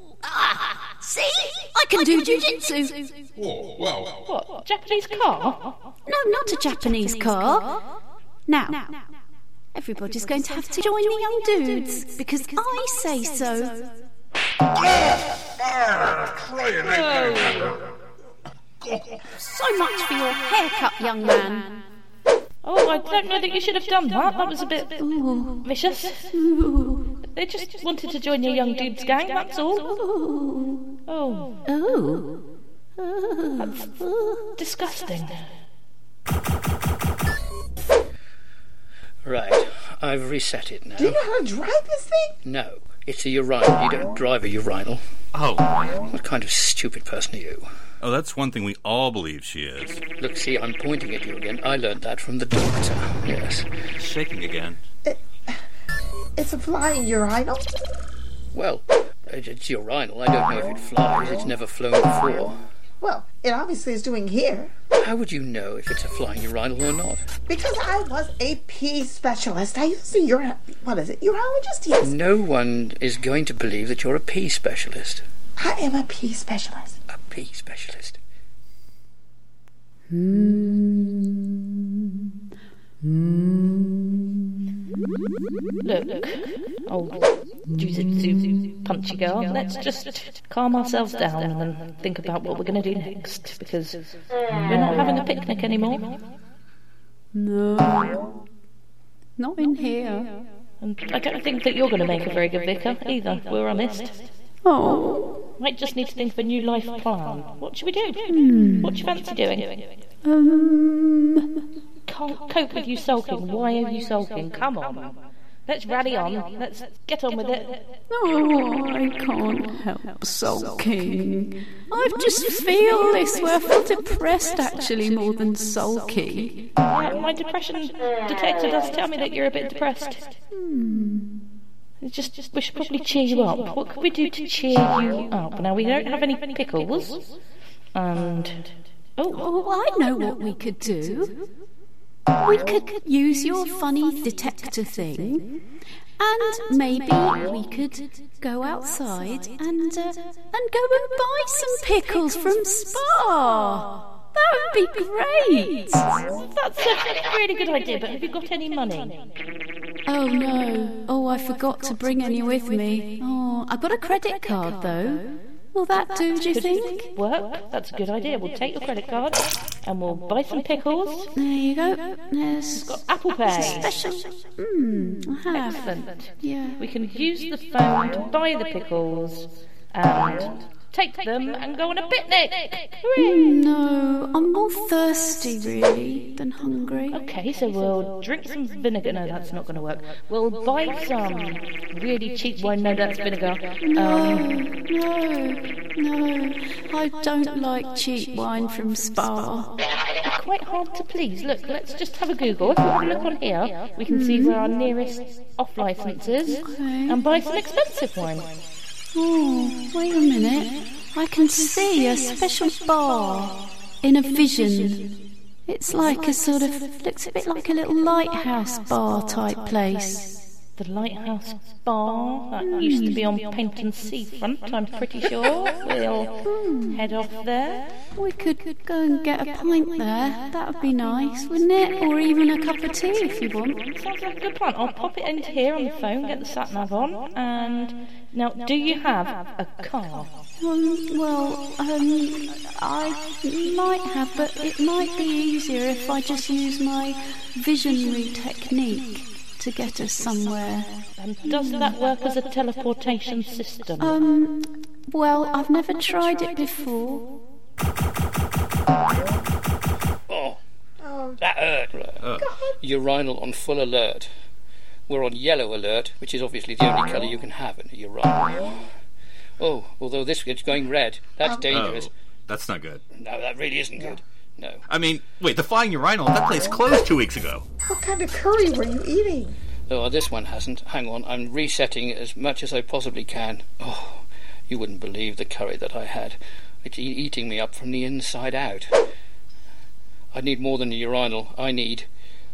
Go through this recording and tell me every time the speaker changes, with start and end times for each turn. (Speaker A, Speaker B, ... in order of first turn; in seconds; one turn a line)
Speaker A: 0.4-3.1
Speaker B: 3.4-4.2
Speaker C: 4.3-5.8
Speaker A: 6.1-7.8
Speaker A: 8.5-9.0
Speaker A: 9.7-14.0
Speaker B: 14.8-17.8
Speaker B: 18.8-19.3
Speaker A: 19.5-21.8
Speaker C: 22.6-25.0
Speaker A: 25.0-25.7
Speaker C: 25.6-26.3
Speaker A: 26.3-27.1
Speaker C: 27.3-30.0
Speaker A: 30.0-30.9
Speaker C: 31.1-31.6
Speaker A: 31.7-32.5
Speaker A: 33.0-34.5
Speaker C: 33.6-33.9
Speaker C: 34.6-35.4
Speaker D: 39.2-41.2
Speaker E: 41.0-42.3
Speaker D: 42.4-45.0
Speaker F: 45.3-46.0
Speaker D: 46.1-47.7
Speaker F: 48.0-50.0
Speaker D: 50.2-53.6
Speaker F: 54.0-54.8
Speaker E: 55.0-55.6
Speaker E: 56.4-57.7
Speaker D: 58.5-62.6
Speaker E: 63.0-64.7
Speaker D: 65.0-67.2
Speaker E: 67.5-72.1
Speaker D: 72.0-75.2
Speaker E: 75.6-77.0
Speaker D: 77.1-78.2
Speaker A: 80.1-81.5
Speaker A: 83.0-84.2
Speaker C: 85.8-94.1
Speaker C: 94.6-96.2
Speaker A: 97.3-98.3
Speaker A: 99.4-100.4
Speaker C: 100.8-104.3
Speaker A: 104.6-105.4
Speaker C: 105.6-110.0
Speaker A: 108.3-109.1
Speaker A: 110.2-111.6
Speaker C: 112.1-117.9
Speaker A: 118.1-126.7
Speaker C: 126.8-130.4
Speaker A: 130.5-131.4
Speaker C: 132.0-137.3
Speaker C: 137.9-139.4
Speaker A: 139.3-141.5
Speaker A: 142.4-145.6
Speaker A: 146.2-156.1
Speaker C: 156.3-159.3
Speaker A: 160.1-167.1
Speaker C: 166.5-171.3
Speaker A: 171.3-176.8
Speaker C: 172.8-173.9
Speaker C: 175.5-183.4
Speaker A: 183.2-187.2
Speaker C: 187.1-194.5
Speaker A: 193.8-199.8
Speaker C: 200.2-208.6
Speaker A: 204.1-204.6
Speaker A: 206.6-207.2
Speaker A: 209.1-220.3
Speaker C: 220.8-226.4
Speaker A: 222.6-223.3
Speaker A: 226.5-227.0
Speaker C: 226.9-227.9
Speaker A: 228.2-233.8
Speaker C: 233.9-240.3
Speaker A: 240.6-251.0
Speaker C: 251.2-254.2
Speaker A: 251.5-251.9
Speaker A: 254.0-257.4
Speaker D: 260.3-260.6
Speaker E: 261.0-261.4
Speaker D: 261.4-262.2
Speaker F: 262.2-262.5
Speaker E: 262.4-262.8
Speaker D: 262.8-264.3
Speaker D: 265.1-268.8
Speaker D: 269.6-272.1
Speaker E: 271.4-271.7
Speaker F: 271.7-273.0
Speaker D: 273.2-274.8
Speaker F: 274.9-277.6
Speaker E: 277.9-279.5
Speaker D: 279.9-288.9
Speaker D: 290.3-292.1